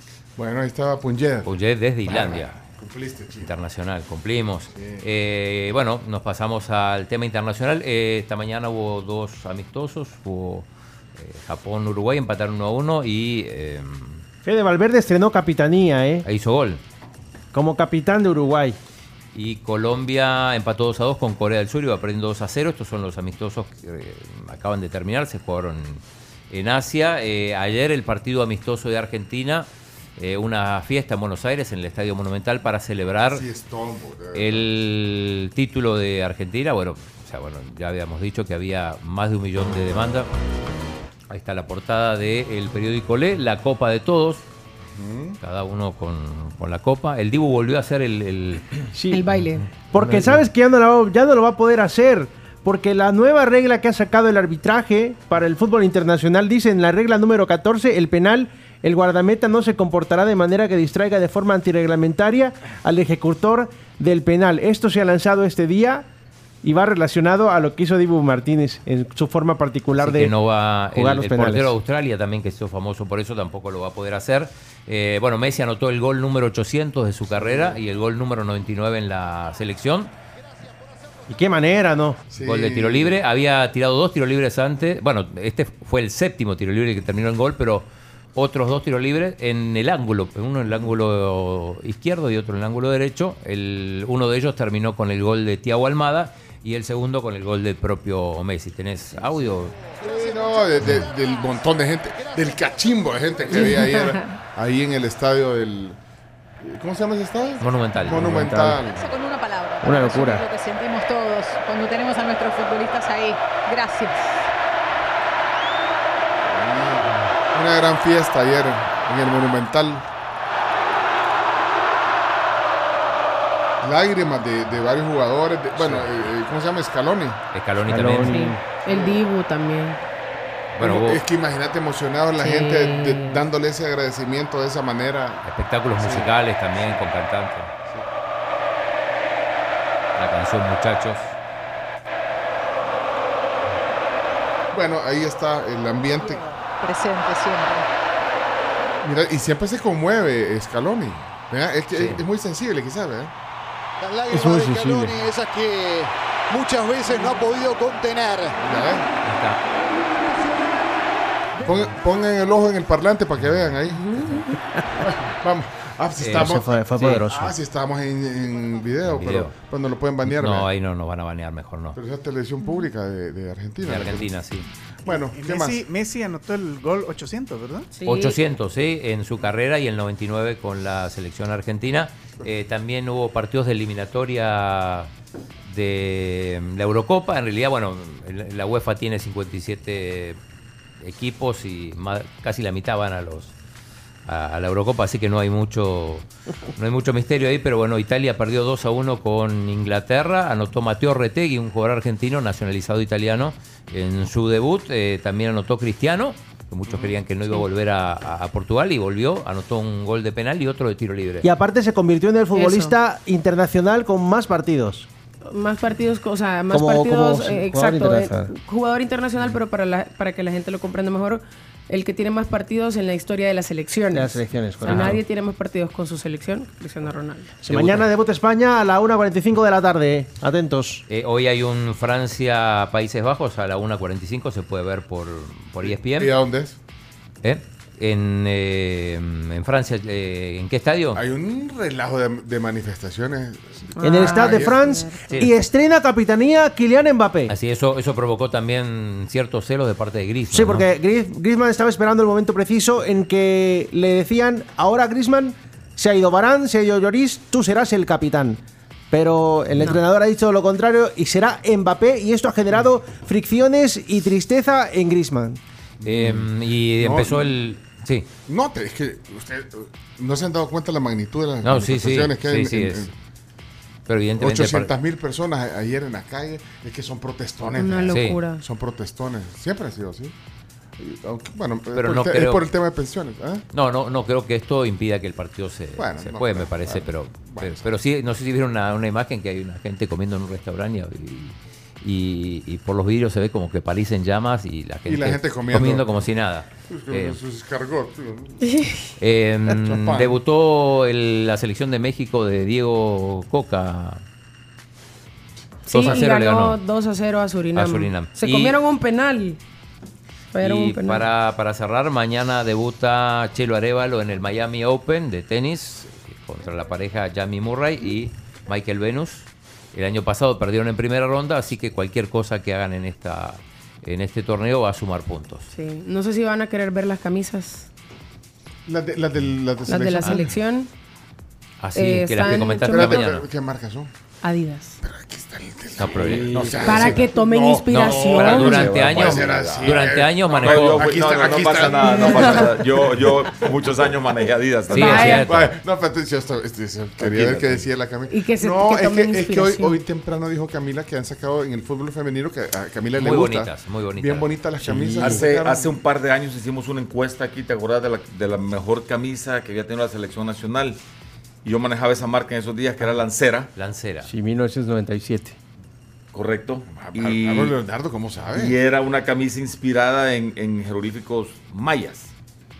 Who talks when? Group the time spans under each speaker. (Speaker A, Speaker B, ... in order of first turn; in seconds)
Speaker A: 0.4-1.5, 2.0-3.5, 4.7-5.0, 33.3-34.7, 44.9-45.4, 77.3-77.8, 82.3-83.2, 100.0-106.0, 106.6-109.1, 116.4-120.0, 123.8-127.4, 128.9-129.2, 130.8-135.4, 136.0-137.1, 144.7-146.4, 149.0-153.3, 158.6-159.1, 161.6-170.7, 171.9-174.3, 175.0-175.8, 206.9-207.2, 235.8-236.8, 241.1-244.8, 266.0-267.5, 268.5-273.1, 274.4-280.3, 281.0-283.6, 286.0-287.9, 295.1-296.1, 296.9-298.6, 299.7-300.4, 328.9-330.5, 332.4-334.1, 335.0-343.7, 345.0-355.9, 366.9-368.8
Speaker B: 1.4-2.5, 3.4-14.2, 16.2-16.8, 19.3-33.4, 34.3-40.3, 41.3-44.4, 45.4-48.9, 50.0-50.3, 69.9-80.1, 82.4-99.8, 107.6-108.3, 125.8-126.3, 127.5-128.4, 130.7-131.2, 135.4-137.7, 140.2-141.3, 151.9-152.2, 159.2-159.6, 166.2-167.1, 169.1-169.5, 170.2-172.0, 173.8-174.7, 178.0-185.1, 185.6-190.4, 191.0-193.5, 194.2-211.5, 224.8-225.2, 227.7-228.1, 231.1-236.3, 237.4-241.2, 247.5-250.8, 266.0-268.3, 271.6-273.1, 274.1-274.9, 278.1-278.4, 281.9-282.7, 283.7-297.4, 299.2-304.2, 305.9-306.8, 307.7-308.7, 310.6-325.7, 331.8-333.4, 335.9-337.2, 337.9-341.2, 344.9-345.7, 353.1-354.5, 363.7-364.3
Speaker C: 14.4-16.2, 17.5-18.8, 48.9-49.2, 49.9-66.1, 66.6-70.3, 70.9-71.8, 81.3-82.2, 108.0-108.9, 109.8-110.5, 127.9-128.6, 154.3-155.1, 166.3-167.6, 211.4-215.1, 216.7-218.5, 224.1-225.2, 227.6-231.0, 244.0-247.5, 250.5-265.6, 354.8-355.4, 364.2-365.6
Speaker D: 49.1-49.7, 103.5-104.2, 128.3-130.0, 132.4-133.4, 177.9-178.4, 212.5-212.9, 215.5-227.5, 243.9-245.2, 277.8-278.6, 298.6-299.1, 305.9-309.6, 310.5-311.3, 325.7-327.9, 329.9-330.9, 331.9-333.2, 334.4-335.0, 336.8-338.9, 342.1-342.6, 344.9-345.5, 348.3-350.0
Speaker E: 108.9-114.5, 146.2-147.9
Speaker F: 154.0-158.6
Speaker G: 175.1-177.9
Speaker H: 336.0-337.2, 338.4-345.4, 347.2-347.8, 355.2-361.0, 361.6-363.7, 366.3-367.8, 368.5-372.3